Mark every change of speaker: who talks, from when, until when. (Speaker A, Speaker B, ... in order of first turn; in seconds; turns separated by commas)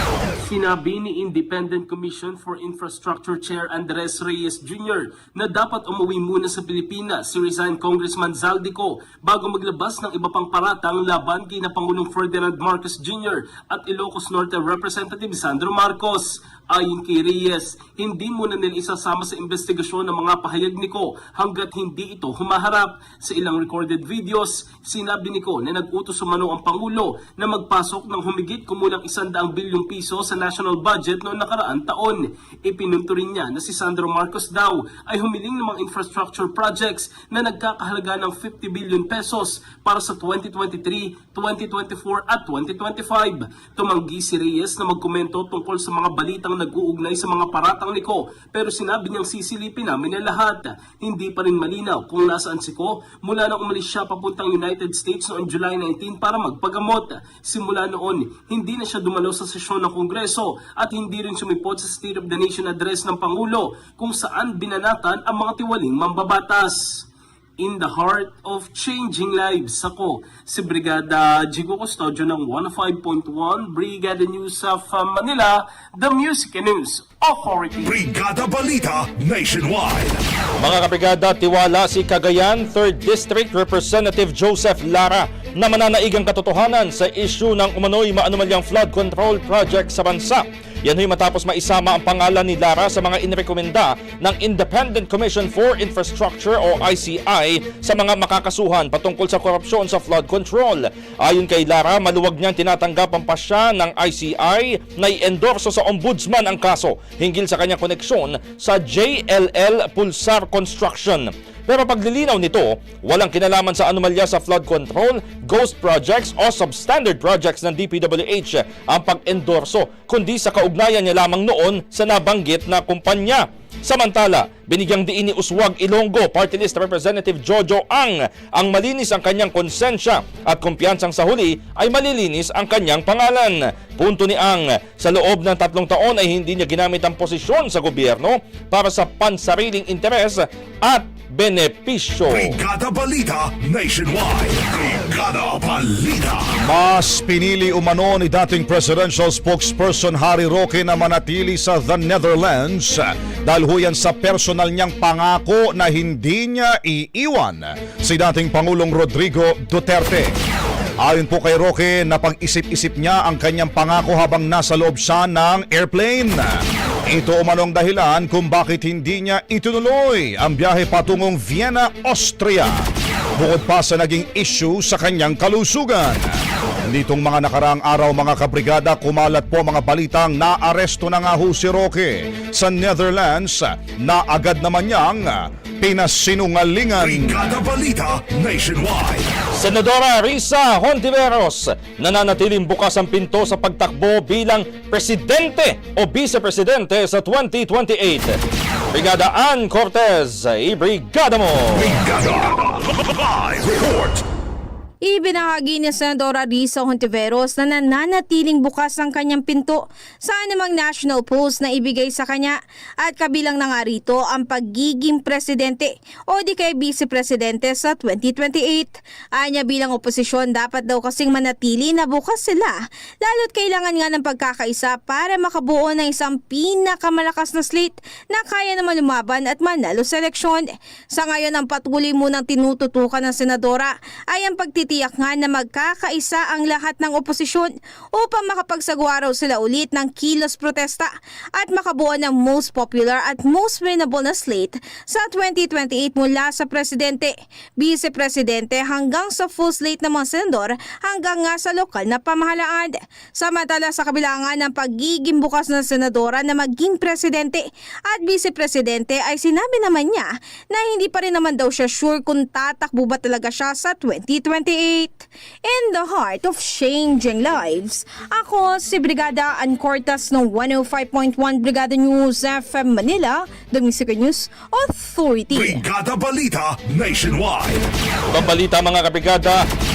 Speaker A: 0.4-67.0, Speaker A: 67.6-78.0, Speaker B: 77.8-80.2, Speaker C: 80.6-142.6, Speaker B: 142.3-146.5, Speaker D: 146.6-160.3, Speaker D: 161.0-166.6, Speaker D: 167.1-172.8, Speaker D: 173.4-176.2, Speaker D: 176.9-187.6, Speaker B: 187.0-189.3, Speaker C: 189.6-198.4, Speaker C: 198.9-202.0, Speaker B: 201.7-204.2, Speaker E: 205.0-275.8, Speaker B: 275.5-277.9, Speaker C: 278.3-279.7